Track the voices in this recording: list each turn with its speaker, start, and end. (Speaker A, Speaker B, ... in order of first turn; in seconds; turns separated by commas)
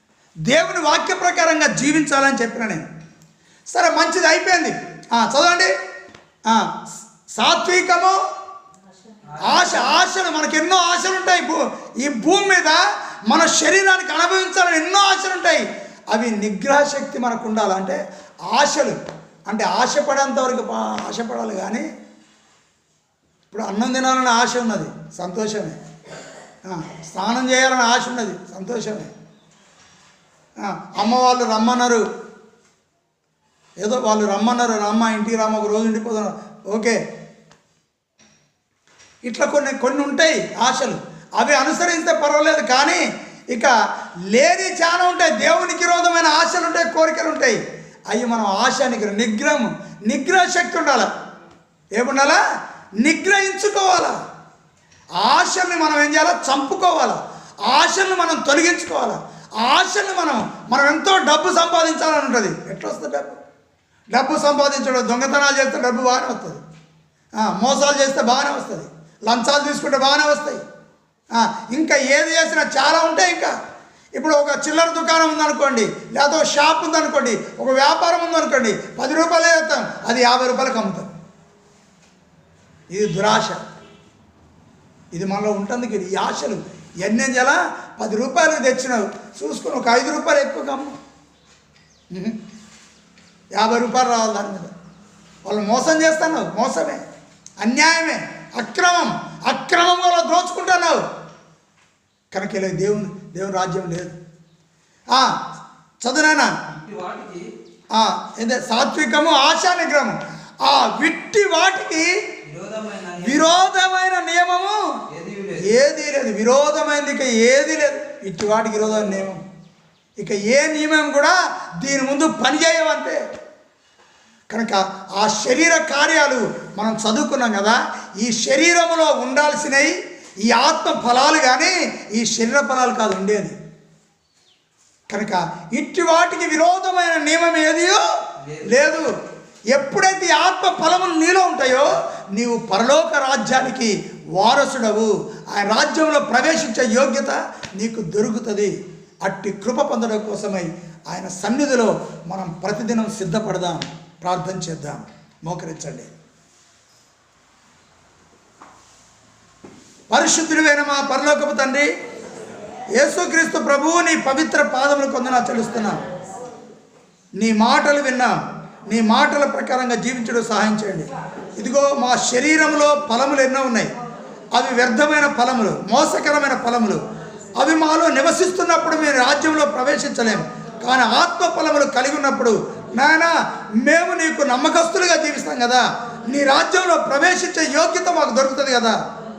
Speaker A: 0.5-2.9, Speaker A: 3.7-5.7, Speaker A: 7.3-8.2, Speaker B: 9.3-10.0, Speaker A: 9.4-21.9, Speaker A: 23.5-25.8, Speaker A: 26.7-29.1, Speaker A: 30.6-32.0, Speaker A: 33.8-37.0, Speaker A: 39.2-43.7, Speaker A: 44.3-47.6, Speaker A: 48.1-51.1, Speaker A: 52.0-52.4, Speaker A: 53.0-54.2, Speaker A: 55.2-63.4, Speaker A: 64.1-66.6, Speaker A: 67.4-70.6, Speaker A: 71.4-73.5, Speaker A: 74.2-81.1, Speaker A: 82.9-83.6, Speaker A: 85.2-90.9, Speaker A: 93.6-94.7, Speaker A: 95.5-97.0, Speaker A: 97.6-101.0, Speaker A: 102.3-104.2, Speaker A: 105.1-105.4, Speaker A: 106.0-106.5, Speaker B: 106.7-107.5, Speaker A: 108.0-112.1, Speaker B: 112.4-113.7, Speaker A: 113.2-114.8, Speaker B: 115.1-115.7, Speaker A: 115.6-119.4, Speaker A: 120.2-123.2, Speaker A: 124.5-129.9, Speaker A: 130.5-133.6, Speaker A: 135.1-138.0, Speaker B: 138.4-138.7, Speaker A: 138.7-139.1, Speaker A: 139.7-156.1, Speaker A: 160.1-161.9, Speaker A: 163.0-166.0, Speaker A: 167.4-168.3, Speaker A: 168.9-173.9, Speaker A: 174.5-177.0, Speaker A: 177.6-189.0